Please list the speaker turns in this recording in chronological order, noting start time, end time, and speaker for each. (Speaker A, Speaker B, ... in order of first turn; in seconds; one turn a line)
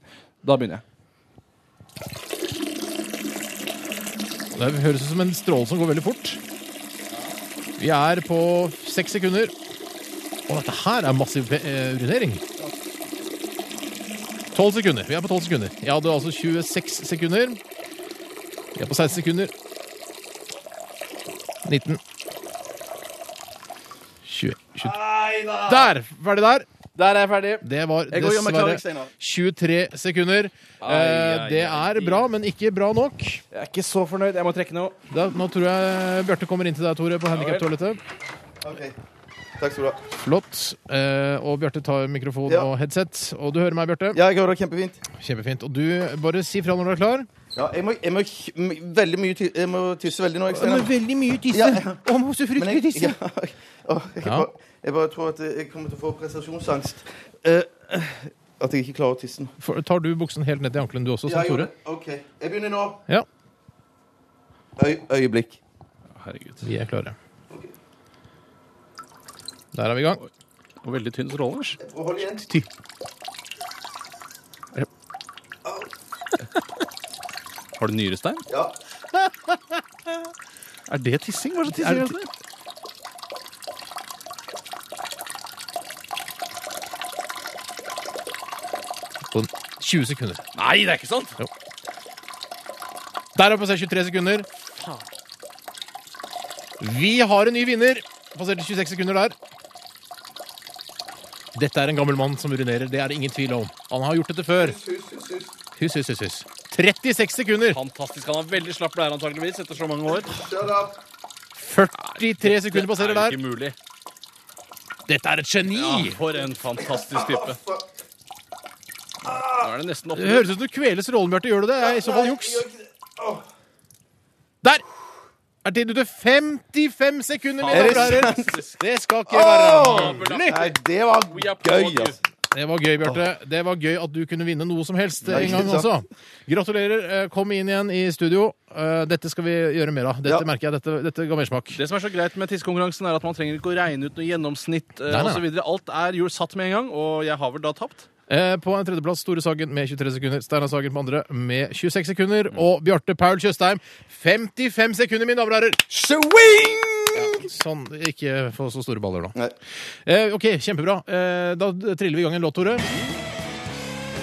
Speaker A: 0.4-0.8
Speaker B: 4.5-6.4
Speaker B: 7.8-9.5
Speaker B: 10.5-12.4
Speaker B: 14.5-17.6
Speaker B: 18.8-19.5
Speaker B: 21.6-22.0
Speaker B: 24.2-24.9
Speaker A: 24.9-25.9
Speaker C: 24.9-25.7
Speaker B: 25.7-26.7
Speaker A: 26.9-27.6
Speaker B: 27.6-33.4
Speaker C: 28.1-29.1
Speaker A: 28.2-28.6
Speaker A: 30.8-32.2
Speaker A: 33.5-34.9
Speaker B: 35.1-38.0
Speaker A: 37.3-37.7
Speaker C: 38.6-39.0
Speaker C: 39.6-40.0
Speaker B: 40.2-44.2
Speaker C: 44.1-45.0
Speaker B: 45.1-47.3
Speaker C: 47.5-50.9
Speaker B: 50.5-53.2
Speaker C: 51.5-59.5
Speaker B: 59.6-61.7
Speaker C: 61.2-63.0
Speaker C: 64.8-65.6
Speaker A: 66.2-66.7
Speaker B: 66.6-67.2
Speaker B: 69.7-70.2
Speaker A: 70.8-71.8
Speaker C: 71.8-72.5
Speaker A: 77.8-78.4
Speaker C: 78.5-78.8
Speaker A: 80.9-82.3
Speaker B: 81.7-82.1
Speaker B: 89.3-90.4
Speaker A: 90.5-91.4
Speaker B: 93.3-94.5
Speaker B: 96.8-99.3
Speaker B: 101.5-104.8
Speaker C: 104.5-105.5
Speaker B: 105.8-107.8
Speaker A: 107.7-110.3
Speaker C: 110.2-111.0
Speaker B: 111.5-113.4
Speaker A: 112.0-113.8
Speaker B: 115.1-116.2
Speaker A: 115.7-117.6
Speaker C: 116.8-117.9
Speaker A: 119.2-120.5
Speaker C: 119.2-119.7
Speaker B: 120.1-122.7
Speaker C: 121.8-123.4
Speaker B: 125.6-130.7
Speaker A: 127.6-128.8
Speaker C: 127.7-128.6
Speaker C: 129.3-132.2
Speaker A: 129.8-130.8
Speaker A: 131.3-132.2
Speaker B: 132.5-141.8
Speaker A: 135.2-135.6
Speaker C: 135.3-135.9
Speaker A: 141.7-148.1
Speaker B: 145.1-145.4
Speaker B: 148.3-155.9
Speaker C: 155.9-157.4
Speaker B: 157.1-159.3
Speaker B: 160.1-162.9
Speaker A: 162.8-163.1